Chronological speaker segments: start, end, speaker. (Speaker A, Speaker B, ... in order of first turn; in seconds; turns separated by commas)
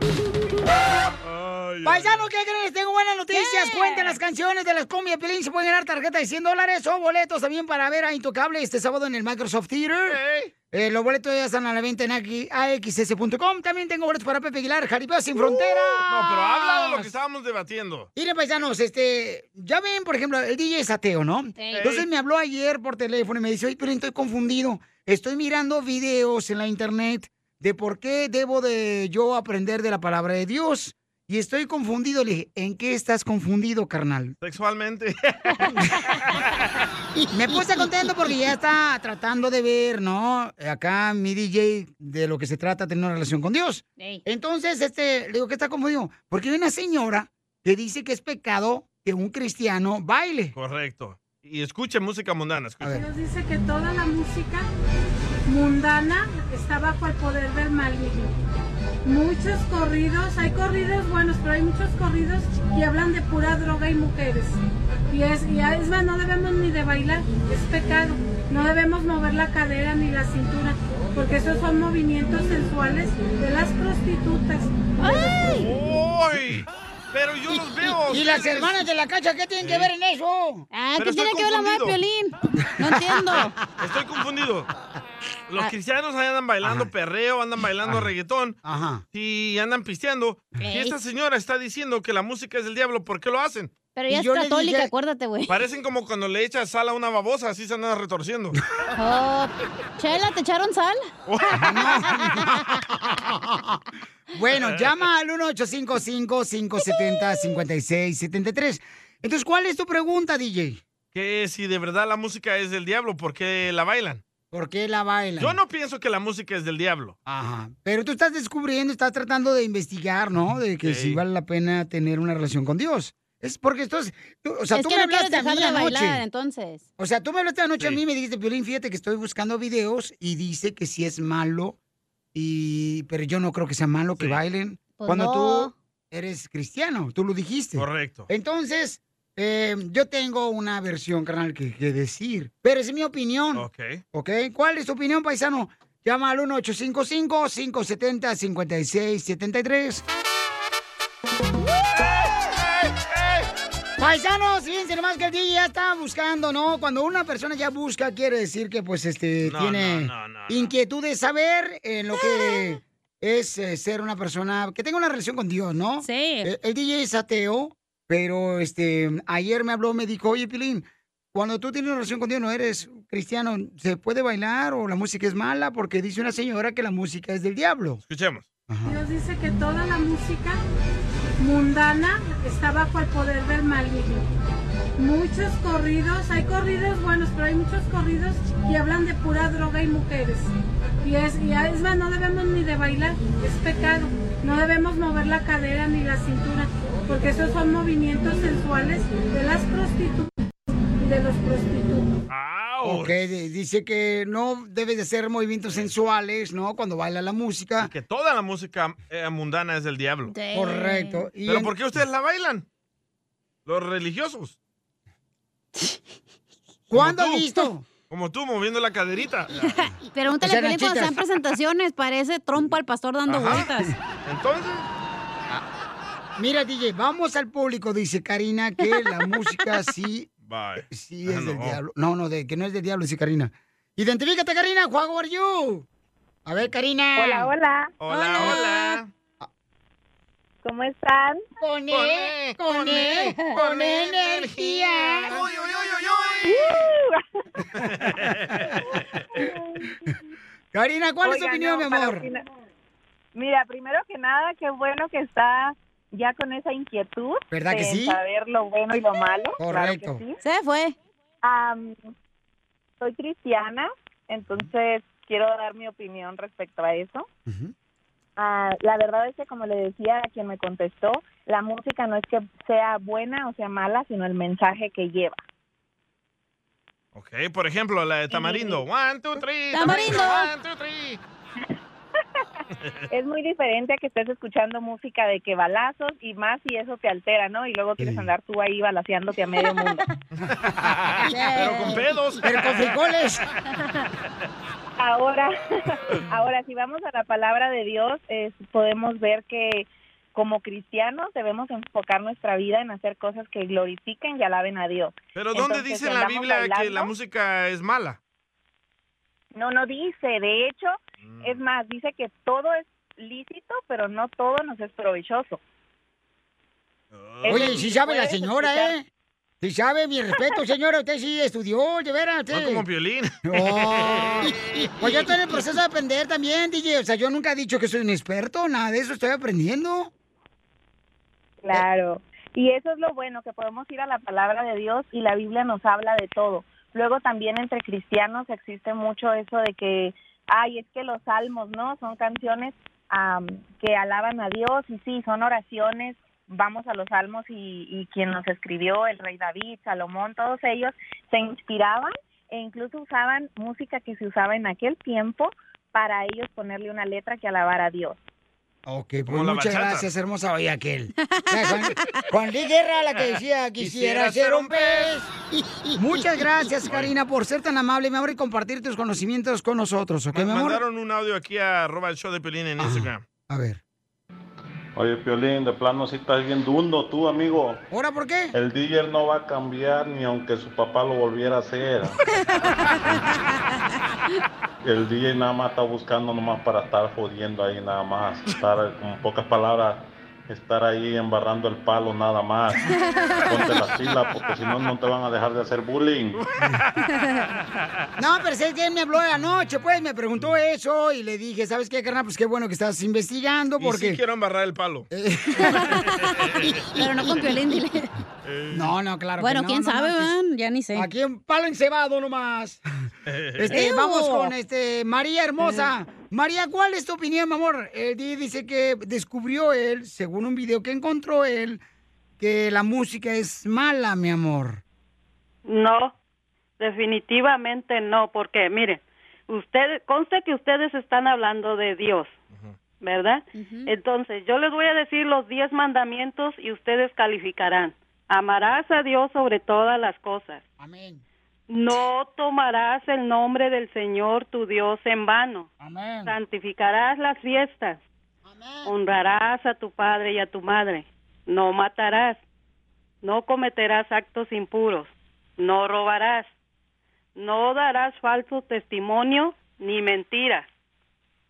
Speaker A: 1.2-2.3, Speaker B: 1.8-10.2, Speaker C: 3.3-4.2, Speaker A: 10.1-10.5, Speaker B: 10.7-17.1, Speaker A: 15.4-18.1, Speaker B: 18.1-34.4, Speaker C: 21.6-21.8, Speaker A: 21.8-22.1, Speaker A: 34.4-36.6, Speaker B: 37.3-50.5, Speaker A: 50.5-52.9, Speaker D: 52.9-54.7, Speaker D: 55.5-58.3, Speaker D: 59.0-64.6, Speaker D: 65.1-75.6, Speaker C: 75.0-75.6, Speaker A: 75.5-78.9, Speaker B: 78.1-80.7, Speaker A: 79.6-79.9, Speaker C: 80.7-83.5, Speaker A: 81.0-82.0, Speaker B: 82.8-83.5, Speaker A: 83.7-84.7, Speaker A: 85.5-88.6, Speaker B: 86.6-86.9, Speaker B: 88.6-89.0, Speaker A: 89.1-93.7, Speaker C: 90.6-91.0, Speaker C: 93.9-95.6, Speaker B: 94.1-94.9, Speaker A: 95.5-98.6, Speaker C: 99.0-102.5, Speaker A: 101.3-102.2, Speaker B: 101.5-103.8, Speaker B: 104.3-110.8, Speaker A: 104.6-104.9, Speaker A: 111.1-114.2, Speaker B: 114.5-115.6, Speaker A: 115.4-117.2, Speaker B: 117.2-126.2, Speaker A: 120.8-121.2, Speaker C: 124.7-126.8, Speaker B: 127.0-131.8, Speaker B: 132.3-150.0, Speaker A: 134.2-134.4, Speaker C: 135.0-135.7, Speaker A: 137.8-138.3, Speaker A: 143.5-144.0, Speaker A: 152.2-153.4, Speaker B: 154.0-178.0, Speaker A: 159.4-160.7, Speaker C: 166.0-166.5, Speaker A: 178.1-178.4, Speaker B: 178.7-179.0, Speaker D: 178.8-180.6, Speaker D: 181.4-184.3, Speaker D: 185.0-190.5, Speaker D: 191.0-200.3, Speaker D: 201.0-202.1, Speaker A: 202.3-203.4, Speaker B: 202.8-207.9, Speaker A: 207.8-210.3, Speaker C: 210.3-211.2, Speaker B: 210.5-211.7, Speaker A: 211.4-212.7, Speaker A: 213.7-214.5, Speaker B: 216.9-217.8, Speaker A: 216.9-217.5, Speaker A: 218.1-219.5, Speaker C: 219.6-223.9, Speaker B: 220.4-221.2, Speaker A: 223.3-223.7, Speaker A: 224.2-224.9, Speaker B: 226.4-230.3, Speaker A: 230.4-231.8, Speaker B: 230.9-235.8, Speaker B: 236.4-237.5, Speaker E: 237.2-237.9, Speaker A: 238.0-239.1, Speaker C: 238.1-239.0, Speaker E: 240.6-241.4, Speaker B: 241.6-245.4, Speaker A: 241.9-246.8, Speaker E: 246.4-247.2, Speaker B: 247.8-248.1, Speaker A: 247.8-249.2, Speaker B: 250.7-252.2, Speaker E: 251.2-252.4, Speaker E: 253.3-260.4, Speaker B: 257.5-258.2, Speaker B: 259.6-260.2, Speaker C: 260.4-260.9, Speaker E: 261.4-262.0, Speaker E: 263.0-267.3, Speaker B: 267.5-267.7, Speaker E: 268.4-275.4, Speaker A: 277.1-281.2, Speaker C: 279.7-280.5, Speaker E: 283.1-290.0, Speaker B: 288.0-288.3, Speaker A: 290.4-292.9, Speaker C: 291.2-292.1, Speaker B: 292.4-293.4, Speaker E: 295.0-307.1, Speaker A: 305.3-308.2, Speaker E: 309.5-315.6, Speaker A: 311.2-311.6, Speaker A: 317.1-317.9, Speaker E: 317.4-319.0, Speaker B: 317.5-319.1, Speaker B: 319.6-322.8, Speaker A: 322.5-325.3, Speaker B: 323.4-330.1, Speaker E: 331.6-358.2, Speaker B: 358.9-365.3, Speaker A: 359.3-360.1, Speaker C: 361.3-362.2, Speaker A: 363.8-365.1, Speaker B: 365.9-370.8, Speaker A: 366.8-367.1, Speaker A: 370.3-373.2, Speaker B: 372.8-373.8, Speaker F: 374.9-377.8, Speaker B: 377.9-378.5, Speaker F: 378.5-382.1, Speaker C: 382.5-382.7, Speaker F: 384.8-392.8, Speaker C: 392.9-393.8, Speaker F: 393.5-396.4, Speaker A: 396.3-397.0, Speaker B: 398.2-404.2, Speaker A: 403.8-405.1, Speaker B: 405.1-406.1, Speaker C: 405.6-408.1, Speaker A: 406.2-406.9, Speaker B: 406.6-407.3, Speaker A: 408.4-408.9, Speaker B: 408.7-410.3, Speaker C: 409.4-411.1, Speaker B: 410.9-412.8, Speaker A: 413.3-413.8, Speaker B: 413.6-421.8, Speaker C: 413.7-414.5, Speaker C: 415.6-415.9, Speaker B: 422.4-424.8, Speaker G: 425.6-426.1, Speaker G: 426.8-432.3, Speaker G: 433.0-440.6, Speaker C: 433.5-433.9, Speaker B: 440.8-441.2, Speaker G: 441.7-445.7, Speaker B: 445.8-446.3, Speaker G: 446.2-448.0, Speaker B: 448.4-448.9, Speaker G: 448.8-452.4, Speaker G: 453.2-456.5, Speaker G: 457.3-460.6